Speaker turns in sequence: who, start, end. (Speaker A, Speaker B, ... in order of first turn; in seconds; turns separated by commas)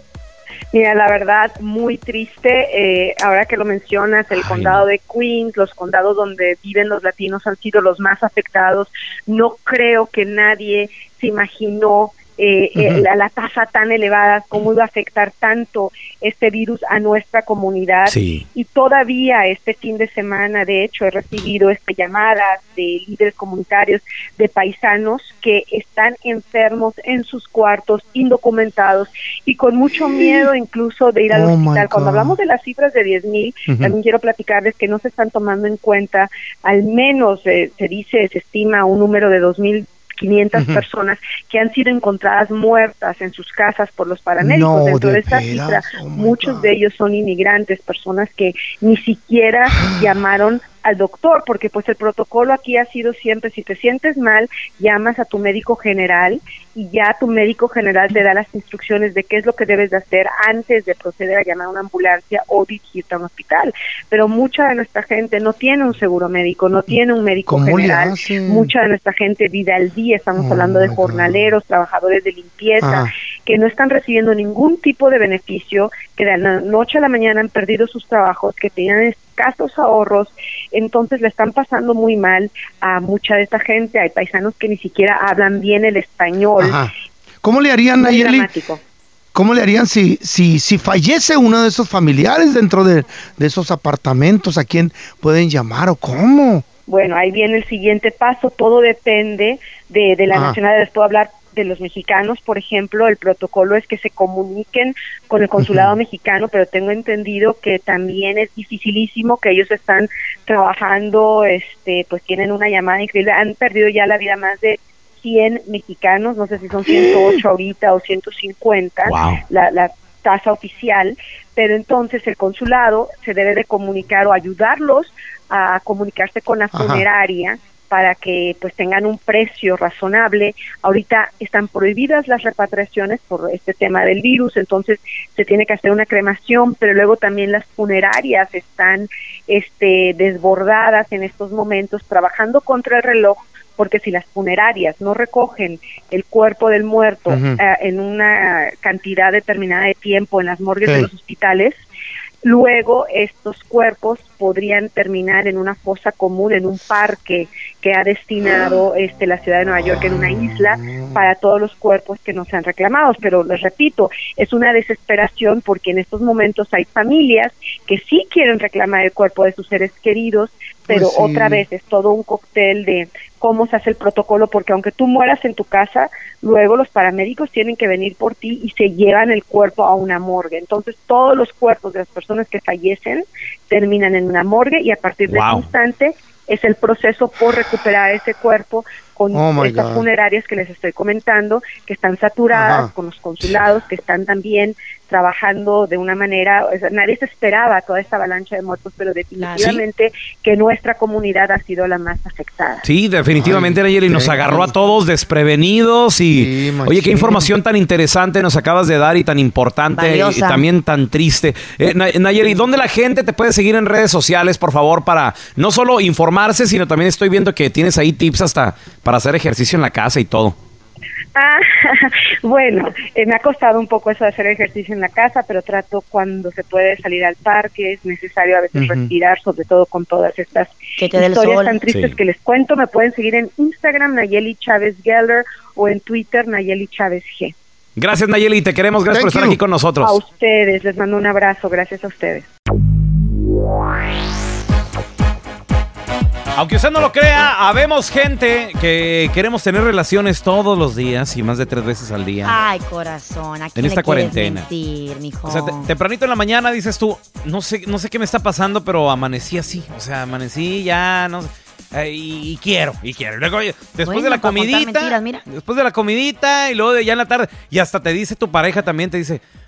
Speaker A: 0.7-86.8, Speaker B: 4.3-4.8, Speaker C: 12.8-13.0, Speaker B: 18.1-18.4, Speaker C: 30.1-30.5, Speaker C: 31.3-32.4, Speaker C: 33.7-33.9, Speaker C: 40.5-40.8, Speaker C: 44.4-46.7, Speaker C: 67.5-68.7, Speaker C: 70.4-71.4, Speaker C: 72.8-73.1, Speaker C: 86.6-86.9, Speaker C: 87.4-88.5, Speaker A: 88.0-88.8, Speaker C: 89.3-96.6, Speaker A: 96.9-151.8, Speaker C: 100.3-100.6, Speaker C: 105.6-105.9, Speaker C: 116.9-117.3, Speaker B: 119.0-119.4, Speaker C: 126.7-127.0, Speaker C: 147.3-147.6, Speaker A: 152.4-202.8, Speaker C: 159.8-161.2, Speaker C: 170.9-171.6, Speaker B: 185.3-185.7, Speaker C: 189.3-190.0, Speaker C: 192.5-192.9, Speaker B: 202.8-220.6, Speaker C: 203.4-204.7, Speaker C: 206.3-207.5, Speaker D: 209.9-210.7, Speaker A: 221.3-237.5, Speaker C: 228.7-229.1, Speaker D: 231.0-231.8, Speaker B: 231.9-232.2, Speaker B: 238.0-240.2, Speaker C: 239.1-239.6, Speaker A: 240.0-242.4, Speaker B: 246.6-252.6, Speaker D: 252.4-255.9, Speaker B: 253.8-254.7, Speaker B: 255.4-269.4, Speaker D: 264.0-265.4